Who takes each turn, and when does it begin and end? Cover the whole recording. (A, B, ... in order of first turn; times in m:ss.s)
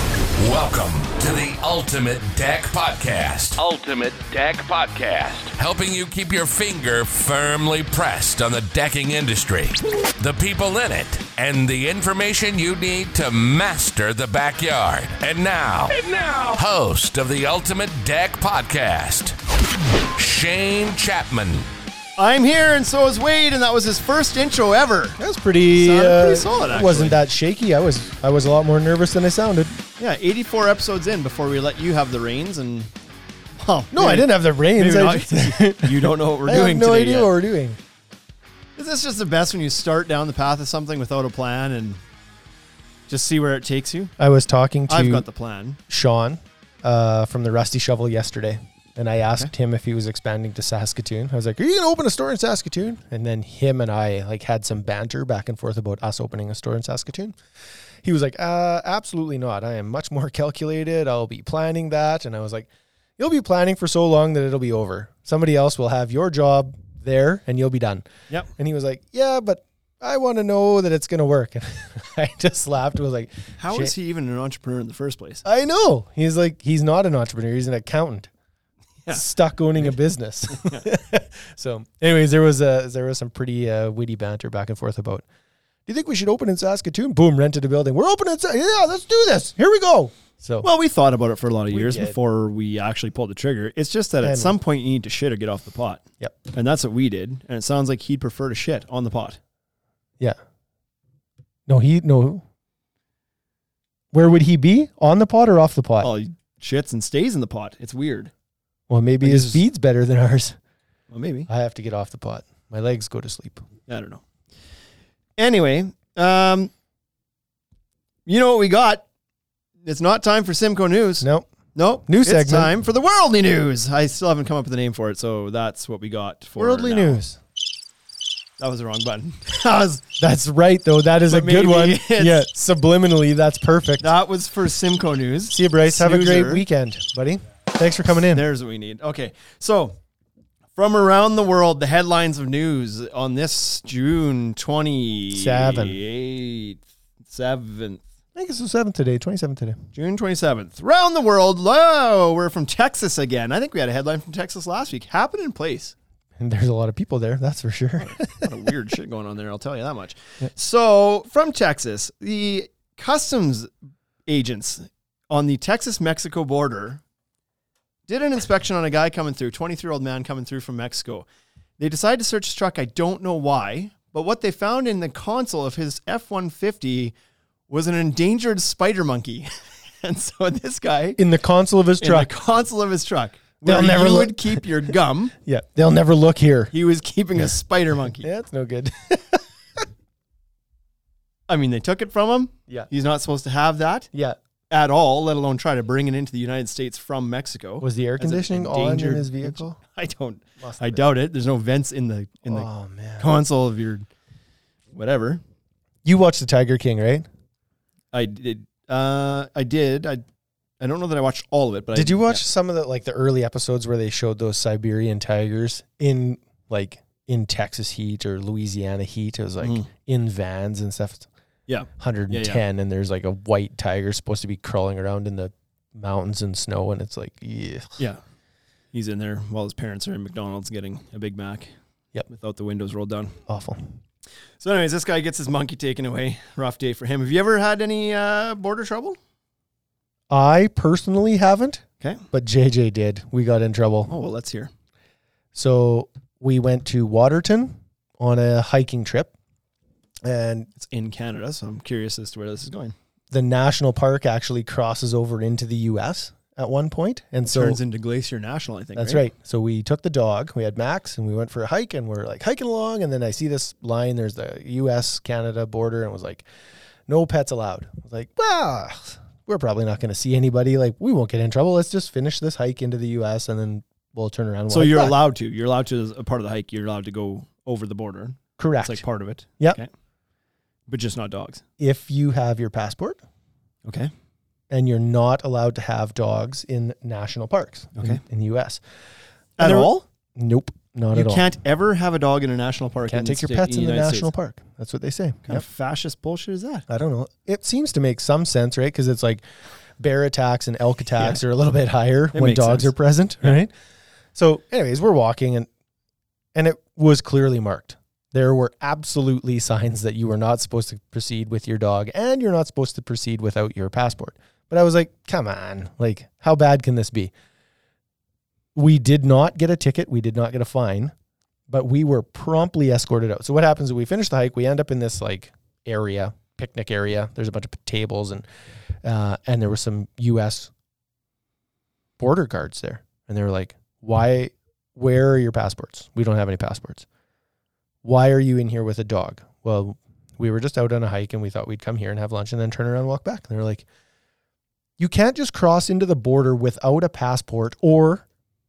0:00.4-0:19.4 A
0:20.2-0:21.7 A
0:22.2-0:25.2 B
0:25.2-0:29.8 C
0:25.8-0:27.2 B
0:30.0-0:32.9 B
0:33.6-0:37.3 B
0:33.9-0:37.8 C
0:38.8-0:42.0 B
0:43.1-0:44.1 B
0:44.2-0:45.3 C
0:44.9-0:45.8 B
0:45.9-0:57.4 C
0:58.0-1:13.9 C
1:13.6-1:15.4 B
1:15.4-1:18.3 C
1:19.1-1:25.2 C
1:20.5-1:20.8 B
1:25.9-1:30.7 C
1:30.6-1:39.4 B
1:31.7-1:32.2 C
1:34.2-1:34.6 C
1:41.7-1:42.4 C
1:44.1-1:46.1 C
1:46.0-1:48.3 B
1:48.9-1:50.6 C
1:49.2-1:49.6 B
1:51.1-1:51.5 B
1:51.5-1:53.6 C
1:53.9-1:54.2 B
1:55.4-1:56.7 B
1:58.3-1:59.0 B
1:59.8-2:07.2 B
2:01.2-2:01.5 C
2:02.1-2:02.7 C
2:06.6-2:07.4 C
2:08.6-2:10.0 B
2:10.2-2:14.1 C
2:11.3-2:12.5 B
2:14.0-2:16.6 B
2:15.5-2:18.4 C
2:18.3-2:20.0 B
2:20.8-2:28.0 B
2:25.3-2:26.0 C
2:28.4-2:29.8 C
2:29.9-2:36.0 B
2:36.4-2:38.6 C
2:38.0-2:43.7 B
2:44.3-2:47.0 B
2:48.1-2:51.3 B
2:51.8-2:57.1 B
2:57.7-3:01.2 B
3:01.2-3:02.3 C
3:02.0-3:05.3 B
3:03.6-3:04.7 C
3:05.4-3:06.7 C
3:06.7-3:08.3 B
3:08.2-3:09.8 C
3:11.5-3:14.1 B
3:14.7-3:24.1 B
3:17.8-3:19.8 C
3:20.6-3:21.0 C
3:22.5-3:23.3 C
3:24.9-3:25.4 B
3:26.0-3:27.3 C
3:28.1-3:30.2 B
3:30.8-3:32.4 B
3:31.9-3:41.3 C
3:39.6-3:39.9 B
3:41.7-3:42.6 B
3:42.0-3:48.0 C
3:48.9-3:51.7 B
3:52.3-3:53.4 B
3:53.5-3:53.9 C
3:54.6-3:59.2 B
4:00.3-4:04.1 C
4:04.1-4:04.7 B
4:05.5-4:09.3 C
4:10.2-4:10.7 C
4:10.8-4:13.0 B
4:13.3-4:17.8 C
4:17.5-4:19.2 B
4:19.0-4:26.5 C
4:27.1-4:35.2 C
4:34.7-4:39.9 B
4:38.6-4:39.0 C
4:40.9-4:41.6 B
4:41.8-4:43.2 C
4:43.9-4:44.1 B
4:44.7-4:48.8 C
4:48.0-4:48.2 B
4:49.6-4:50.1 B
4:49.6-4:51.4 C
4:51.1-4:54.3 B
4:53.1-4:55.6 C
4:55.4-4:56.9 B
4:56.9-4:59.4 C
5:00.0-5:03.7 C
5:02.3-5:03.6 B
5:04.4-5:05.7 C
5:06.6-5:17.3 C
5:18.8-5:21.1 C
5:21.7-5:28.5 C
5:29.0-5:30.7 C
5:32.2-5:37.1 C
5:38.0-5:43.9 C
5:45.0-5:48.3 C